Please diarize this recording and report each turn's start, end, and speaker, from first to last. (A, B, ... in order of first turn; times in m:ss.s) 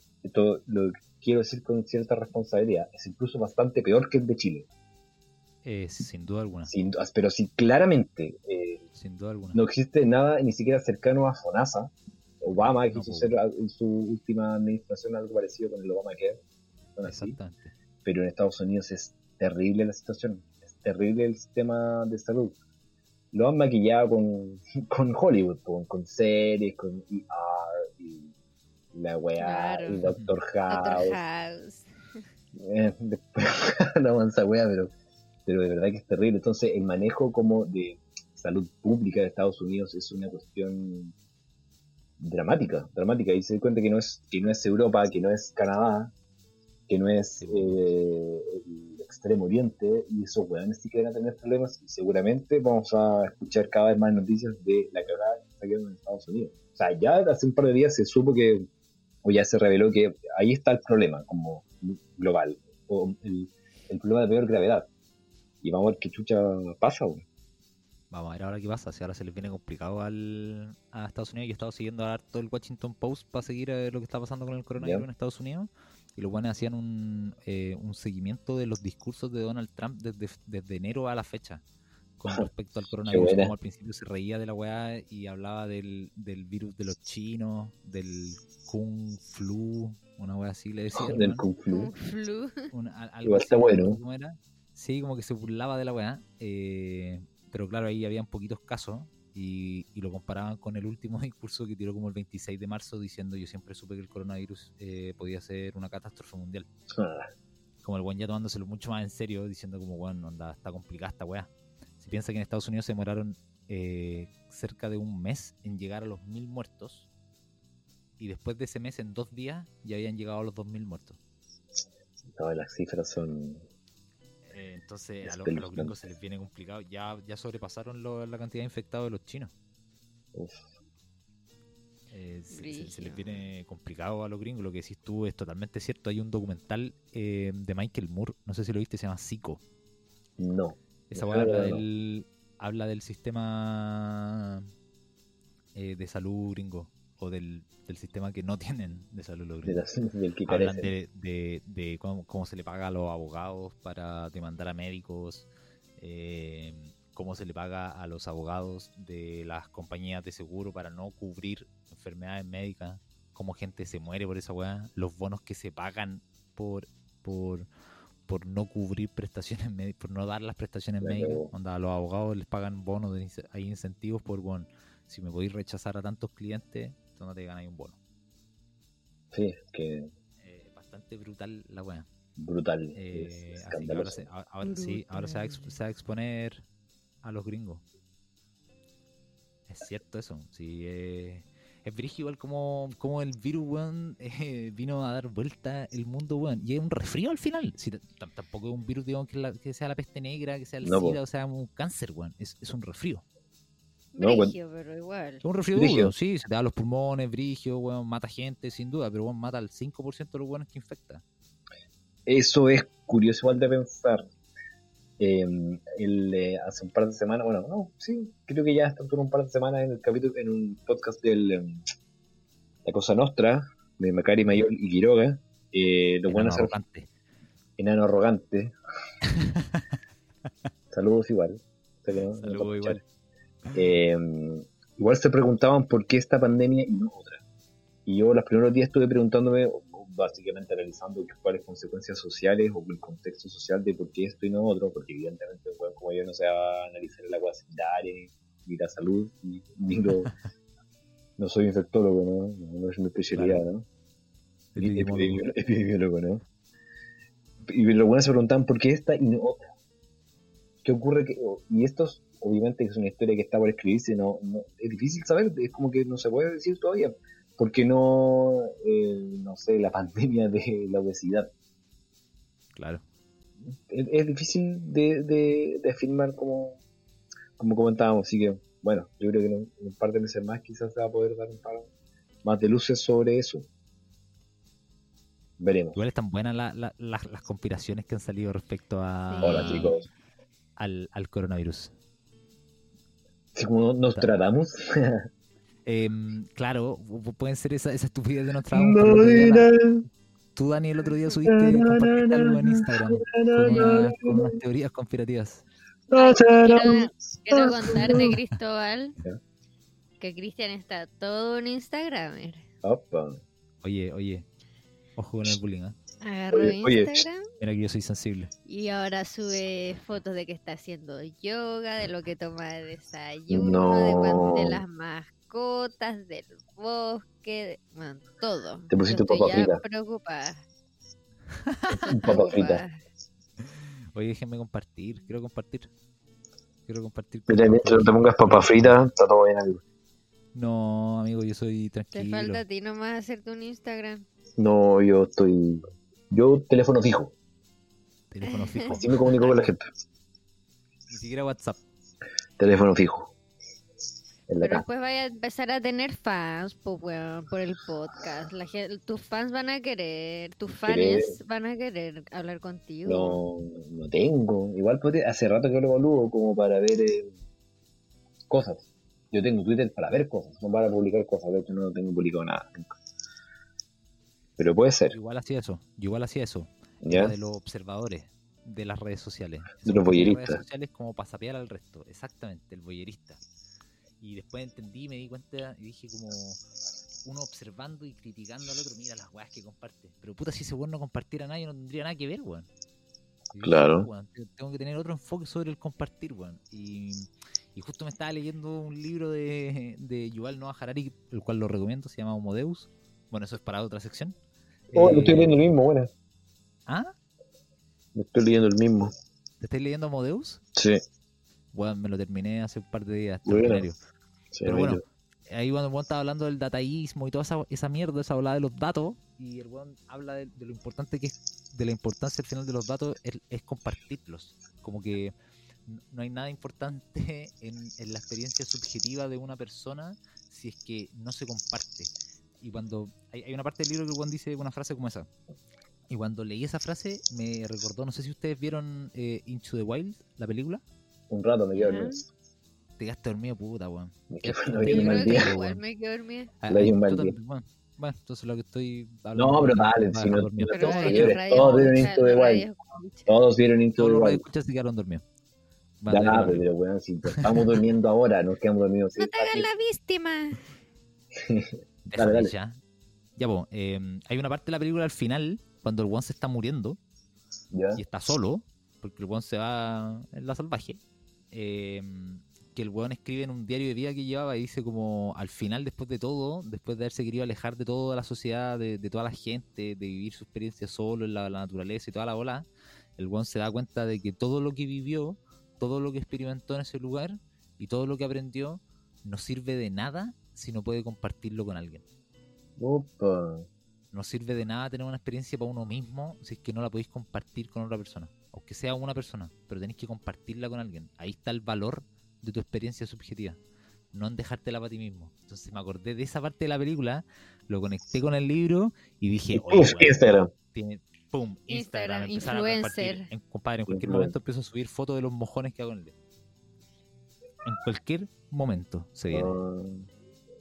0:00.2-0:04.7 A
0:05.6-0:06.7 B
0:06.7-0:08.8 A
0:09.0-0:09.6 B
0:09.5-0:16.4 A
0:12.6-0:13.3 B
0:17.0-0:17.4 A
0:17.0-0:17.7 B
0:18.0-0:22.6 A
0:23.3-0:28.3 A
0:28.9-0:31.2 A
0:29.4-0:30.0 C
0:30.0-0:30.3 B
0:30.7-0:31.9 C
0:32.5-0:34.9 A
0:35.4-0:41.1 A
0:42.2-0:46.1 A
0:46.9-0:58.6 A
0:47.4-0:47.8 B
0:59.2-1:04.9 A
1:05.6-1:07.2 A
1:08.1-1:21.6 B
1:14.8-1:15.0 A
1:22.2-1:31.4 B
1:23.1-1:23.5 A
1:30.9-1:31.9 A
1:31.7-1:32.7 C
1:32.7-1:46.7 B
1:33.2-1:34.0 A
1:46.9-1:47.3 A
1:47.8-1:57.1 B
1:58.2-2:01.2 B
2:02.3-2:03.6 A
2:04.5-2:09.5 B
2:05.2-2:05.9 A
2:10.3-2:10.6 A
2:12.1-2:19.6 B
2:12.5-2:13.4 C
2:20.4-2:21.8 A
2:21.1-2:24.7 B
2:25.7-2:29.8 B
2:29.6-2:30.9 A
2:30.5-2:47.7 B
2:48.3-2:58.0 B
2:51.0-2:51.5 A
2:59.3-3:00.1 A
3:00.4-3:02.0 B
3:02.4-3:04.3 A
3:02.9-3:06.6 B
3:04.6-3:05.7 C
3:07.2-3:07.8 B
3:09.7-3:23.2 B
3:20.8-3:21.2 A
3:24.1-3:25.4 C
3:24.2-3:24.5 A
3:25.4-3:31.2 B
3:25.7-3:26.1 A
3:32.3-3:34.2 A
3:35.2-3:41.8 A
3:42.8-3:46.7 A
3:46.3-3:47.1 B
3:47.8-3:48.7 A
3:49.4-3:49.8 B
3:50.9-3:53.0 A
3:52.3-3:53.0 B
3:53.7-3:57.4 A
3:58.0-4:10.3 A
4:11.4-4:13.8 A
4:13.3-4:13.6 B
4:14.7-4:15.4 B
4:14.8-4:16.4 A
4:17.6-4:19.7 A
4:20.8-4:31.5 A
4:32.8-4:33.0 B
4:33.7-4:36.8 A
4:37.6-4:41.9 A
4:42.4-4:43.7 A
4:45.6-4:46.0 A
4:45.9-4:50.0 B
4:49.3-4:50.0 C
4:49.4-4:50.0 A
4:50.8-4:51.9 B
4:53.5-4:55.3 A
4:55.8-4:59.7 B
4:58.7-5:00.0 A
5:00.6-5:05.6 B
5:01.4-5:04.6 A
5:03.7-5:03.9 C
5:06.1-5:08.3 A
5:06.1-5:09.2 C
5:10.2-5:12.6 C
5:12.8-5:13.4 A
5:13.8-5:14.4 B
5:15.2-5:16.0 B
5:16.2-5:17.4 C
5:16.5-5:17.2 A
5:17.6-5:18.5 B
5:18.7-5:30.6 C
5:23.5-5:24.8 A
5:28.9-5:29.8 A
5:31.6-5:32.0 B
5:31.9-5:33.0 C
5:32.1-5:32.8 A
5:33.6-5:35.9 B
5:36.9-5:39.0 B
5:37.5-5:39.8 A
5:40.5-5:42.6 B
5:42.1-5:44.2 C
5:44.6-5:47.3 A
5:48.3-5:49.6 B
5:48.4-5:48.9 C
5:48.9-5:49.8 A
5:51.1-5:51.8 B
5:52.6-5:53.3 A
5:54.5-5:54.8 A
5:54.6-6:03.4 C
6:00.8-6:01.4 A
6:03.0-6:07.3 A
6:08.5-6:13.0 A
6:14.6-6:15.2 A
6:15.1-6:23.4 B
6:17.0-6:17.3 A
6:19.8-6:20.6 A
6:24.2-6:26.6 B
6:27.2-6:32.7 B
6:33.5-6:44.3 B
6:33.6-6:34.1 A
6:44.9-6:45.6 B
6:44.9-6:46.1 A
6:46.9-6:47.1 B
6:48.1-6:49.1 A
6:49.6-6:50.6 B
6:51.7-6:54.0 B
6:53.4-6:53.8 A
6:54.5-6:55.0 A
6:54.6-7:05.3 B
7:05.9-7:15.3 B
7:16.1-7:20.8 B
7:21.3-7:22.2 A
7:21.7-7:22.2 C
7:23.0-7:25.8 B
7:24.3-7:25.5 A
7:24.9-7:26.5 C
7:26.6-7:32.1 B
7:26.7-7:27.3 A
7:29.3-7:32.7 A
7:30.7-7:33.4 C
7:33.3-7:34.4 A
7:34.0-7:35.2 B
7:36.0-7:36.6 B
7:36.1-7:39.7 A
7:37.3-7:37.8 B
7:39.2-7:40.6 C
7:41.3-7:42.5 A
7:42.0-7:42.8 B
7:43.4-7:47.0 B
7:47.7-7:48.0 A
7:48.0-7:51.0 B
7:51.5-8:02.6 B
8:03.2-8:12.0 B
8:12.8-8:13.7 A
8:14.1-8:23.6 B
8:24.1-8:36.1 B
8:29.5-8:30.5 A
8:31.7-8:33.2 C
8:33.9-8:34.3 A
8:37.6-8:39.6 B
8:39.3-8:40.1 A